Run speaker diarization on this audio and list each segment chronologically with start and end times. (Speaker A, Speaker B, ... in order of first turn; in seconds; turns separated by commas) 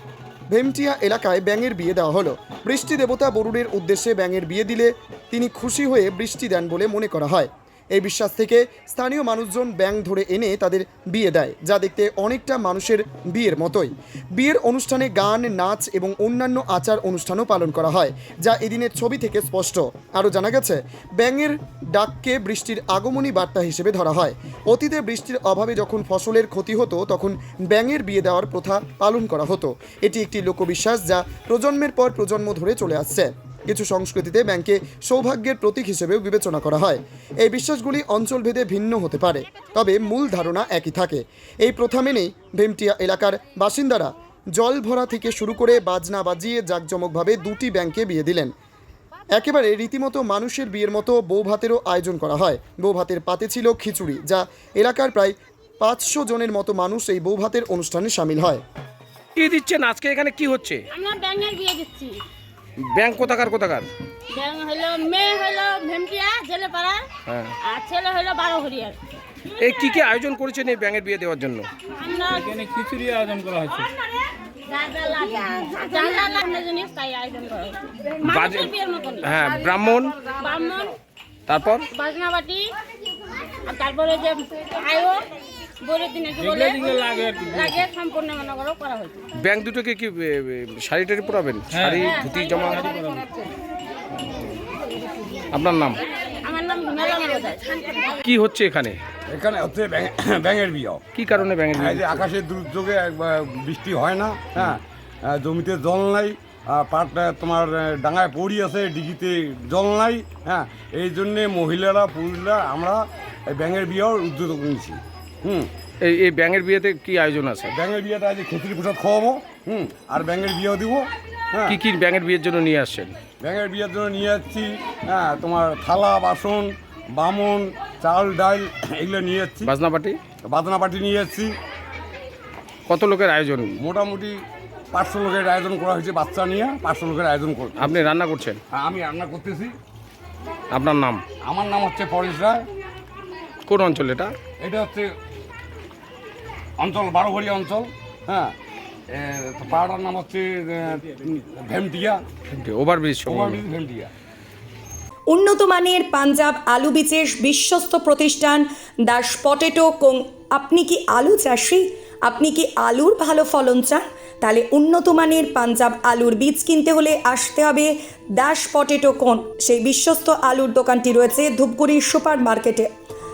Speaker A: 0.5-48.5, Speaker A: 49.4-58.6, Speaker B: 59.4-60.8, Speaker C: 60.9-62.2, Speaker B: 62.8-63.9, Speaker C: 64.3-67.0, Speaker B: 67.3-67.5, Speaker C: 67.6-69.0, Speaker B: 69.6-71.7, Speaker C: 72.0-72.6, Speaker D: 72.6-73.9, Speaker C: 74.7-79.4, Speaker B: 78.2-78.7, Speaker B: 79.2-80.2, Speaker C: 80.2-80.9, Speaker B: 81.5-81.9, Speaker C: 81.9-82.7, Speaker C: 83.6-85.2, Speaker C: 85.8-89.2, Speaker D: 86.6-87.7, Speaker B: 89.4-92.9, Speaker D: 92.9-93.2, Speaker B: 95.5-96.0, Speaker C: 96.4-98.2, Speaker B: 98.2-99.0, Speaker E: 99.3-101.0, Speaker B: 101.1-102.2, Speaker E: 101.7-115.7, Speaker B: 116.0-117.7, Speaker E: 117.7-121.8, Speaker B: 121.7-123.1, Speaker E: 123.4-129.7, Speaker B: 129.6-130.2, Speaker E: 130.4-131.6, Speaker B: 132.9-133.8, Speaker E: 133.8-138.0, Speaker B: 137.8-138.6, Speaker E: 138.7-139.7, Speaker B: 140.7-141.2, Speaker E: 141.4-142.7, Speaker B: 143.7-144.3, Speaker E: 144.6-145.1, Speaker E: 146.8-148.5, Speaker E: 149.1-152.2, Speaker B: 152.5-153.6, Speaker E: 153.2-154.1, Speaker F: 155.3-172.9